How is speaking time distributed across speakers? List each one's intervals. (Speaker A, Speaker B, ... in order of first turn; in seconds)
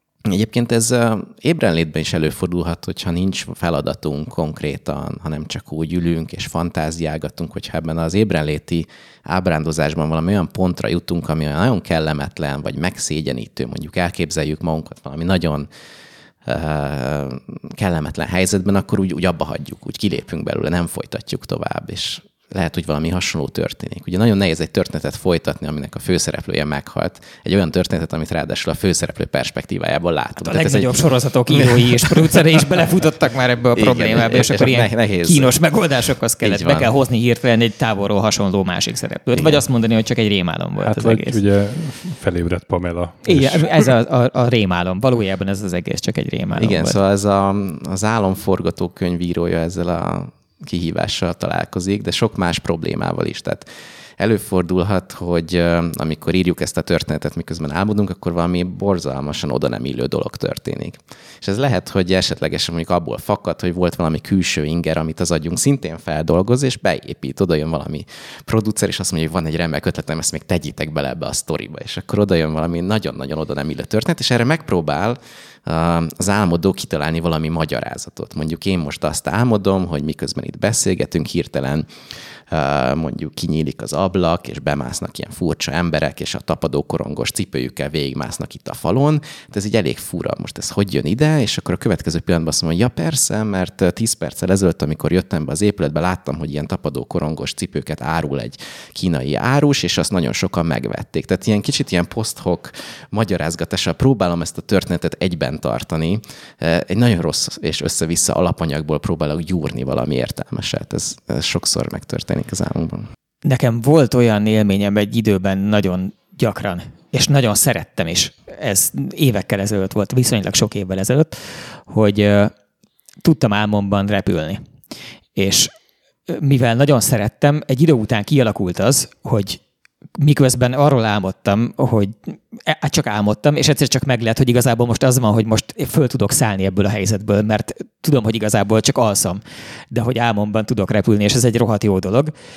Speaker A: 0.3-15.7, 16.4-32.4, 33.8-35.5, 36.4-36.9, 39.3-39.6, 46.6-53.7, 54.2-81.9, 82.5-113.0
Speaker B: 30.4-41.4, 43.2-47.0, 113.5-121.4, 121.9-122.5, 123.2-124.6, 125.4-125.7, 126.3-129.6, 130.2-142.3
Speaker C: 40.8-43.7